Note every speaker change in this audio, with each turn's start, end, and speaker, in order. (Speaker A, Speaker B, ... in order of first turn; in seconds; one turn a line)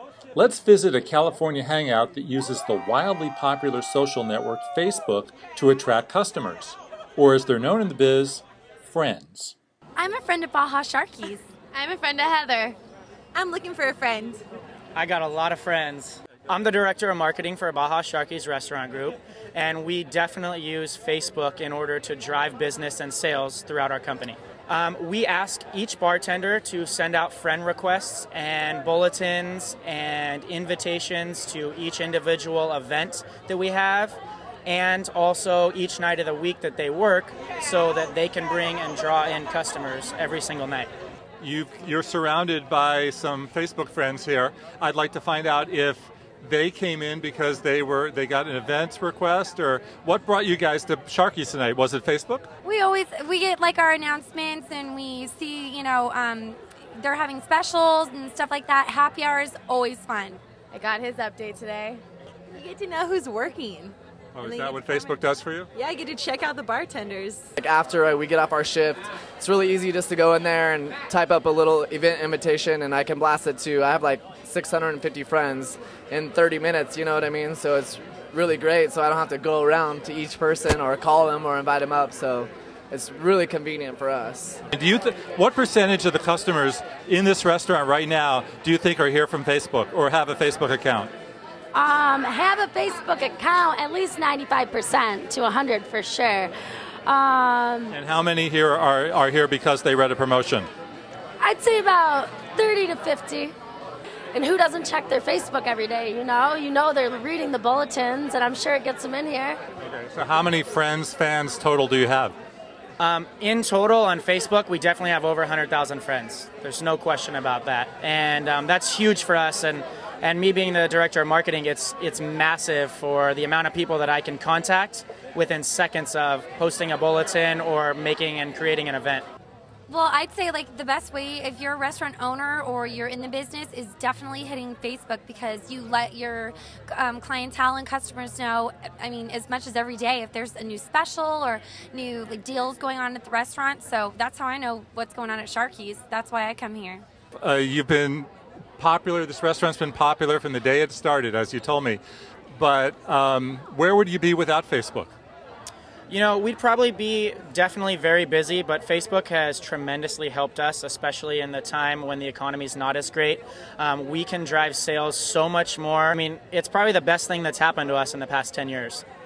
Speaker A: 0.3-9.6
Speaker B: 10.0-11.5
Speaker C: 11.7-12.8
Speaker D: 13.3-14.4
Speaker E: 14.9-40.9
Speaker A: 41.4-52.5
Speaker B: 52.6-60.4
Speaker C: 60.7-62.0
Speaker D: 62.5-67.5
Speaker A: 64.3-65.7
Speaker F: 67.6-84.6
Speaker A: 84.7-91.1
Speaker G: 91.8-96.5
Speaker G: 97.0-98.0
Speaker A: 97.9-100.7
Speaker G: 101.4-103.5
Speaker G: 104.3-109.6
Speaker A: 109.8-112.3
Speaker E: 113.0-129.3
Speaker B: 129.9-147.1
Speaker A: 147.4-152.0
Speaker A: 152.6-155.1
Speaker E: 156.1-169.0